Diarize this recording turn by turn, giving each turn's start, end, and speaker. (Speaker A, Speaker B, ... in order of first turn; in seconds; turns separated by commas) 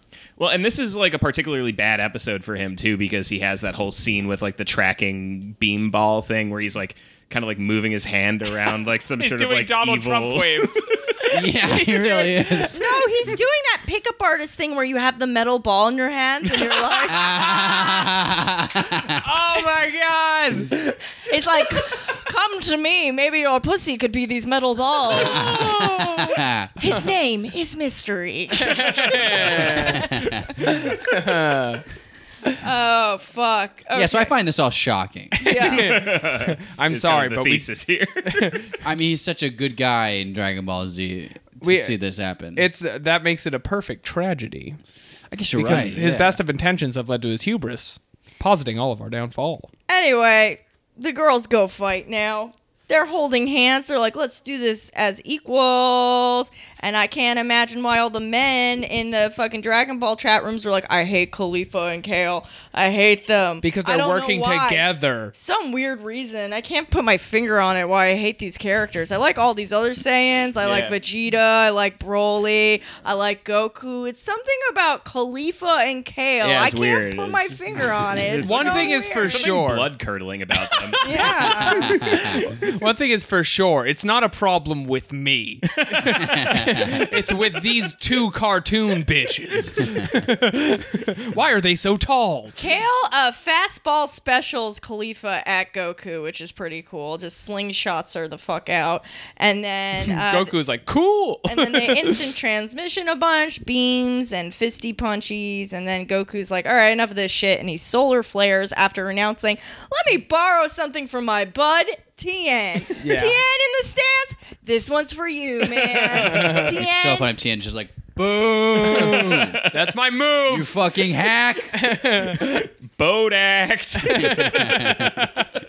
Speaker A: 0.4-11.0, Speaker B: 9.2-12.7, Speaker C: 11.3-13.0, Speaker D: 12.6-18.1, Speaker C: 17.0-19.2, Speaker B: 18.9-20.9, Speaker D: 21.2-30.4, Speaker B: 25.2-26.2, Speaker C: 25.2-26.7, Speaker B: 28.6-31.8, Speaker C: 29.9-30.5, Speaker D: 32.6-34.3, Speaker C: 33.9-35.5, Speaker B: 35.4-37.7, Speaker D: 35.4-35.9, Speaker A: 35.7-38.6, Speaker B: 38.2-38.7, Speaker C: 38.8-42.7, Speaker B: 41.6-42.0, Speaker B: 42.5-44.8, Speaker C: 45.3-46.4, Speaker B: 45.5-49.7, Speaker D: 49.9-79.5, Speaker B: 63.6-65.3, Speaker A: 76.4-81.8, Speaker B: 78.4-79.9, Speaker D: 81.0-82.4, Speaker B: 81.0-92.6, Speaker C: 81.7-82.4, Speaker A: 85.8-86.2, Speaker C: 86.2-87.0, Speaker D: 92.6-100.5, Speaker B: 100.0-102.3, Speaker D: 101.5-117.3, Speaker B: 113.0-113.4, Speaker A: 115.9-116.6, Speaker C: 116.3-119.6, Speaker B: 118.8-120.8, Speaker A: 119.0-119.6, Speaker C: 120.5-121.8, Speaker B: 121.7-122.6, Speaker A: 122.2-124.5, Speaker B: 124.1-125.5, Speaker C: 124.2-125.3